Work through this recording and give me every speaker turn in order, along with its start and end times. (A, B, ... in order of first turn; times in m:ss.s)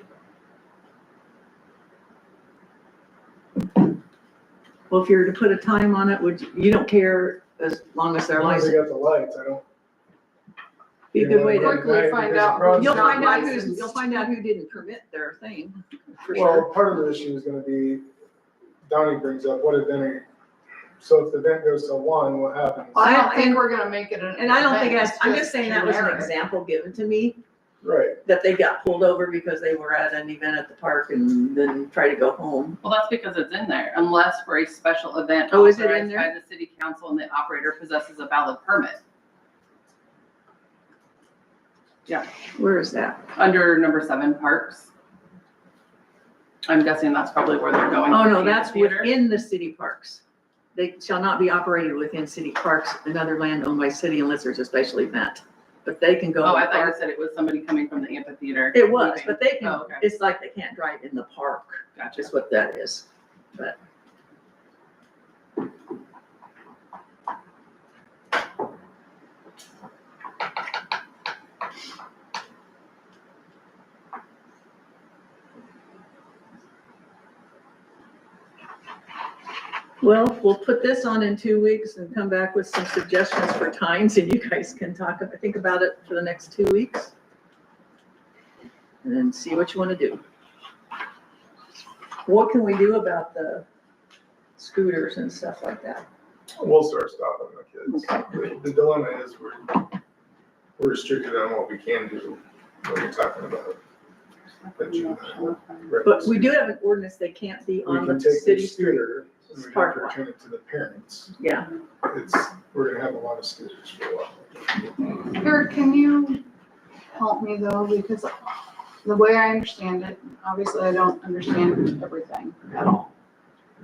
0:04.9-0:08.8 A
0:08.3-0:09.6 B
0:11.1-0:12.0 A
0:11.1-0:13.7 B
0:11.6-0:14.0 C
0:12.7-0:16.7 A
0:16.3-0:18.1 B
0:18.8-0:20.2 B
0:21.0-0:23.2 B
0:22.9-0:26.3 C
0:23.0-0:23.7 A
0:24.4-0:27.4 A
0:27.8-0:28.2 B
0:28.2-0:32.8 A
0:32.8-0:39.0 D
0:35.5-0:36.3 A
0:42.6-0:43.3 A
0:43.3-0:44.9 D
0:46.6-0:49.1 D
0:48.1-0:50.2 A
0:50.7-0:57.0 A
0:56.4-1:00.0 D
0:58.7-1:03.8 A
1:02.0-1:02.2 D
1:20.0-1:27.1 A
1:29.0-1:30.2 A
1:32.2-1:33.6 A
1:34.6-1:36.0 A
1:36.6-1:39.8 B
1:37.9-1:38.5 A
1:40.8-1:43.8 B
1:44.6-1:45.9 D
1:44.8-1:46.5 B
1:46.0-1:50.2 A
1:47.8-1:51.3 B
1:51.4-1:51.7 A
1:52.0-1:54.9 B
1:55.3-1:56.4 C
1:57.1-2:03.1 C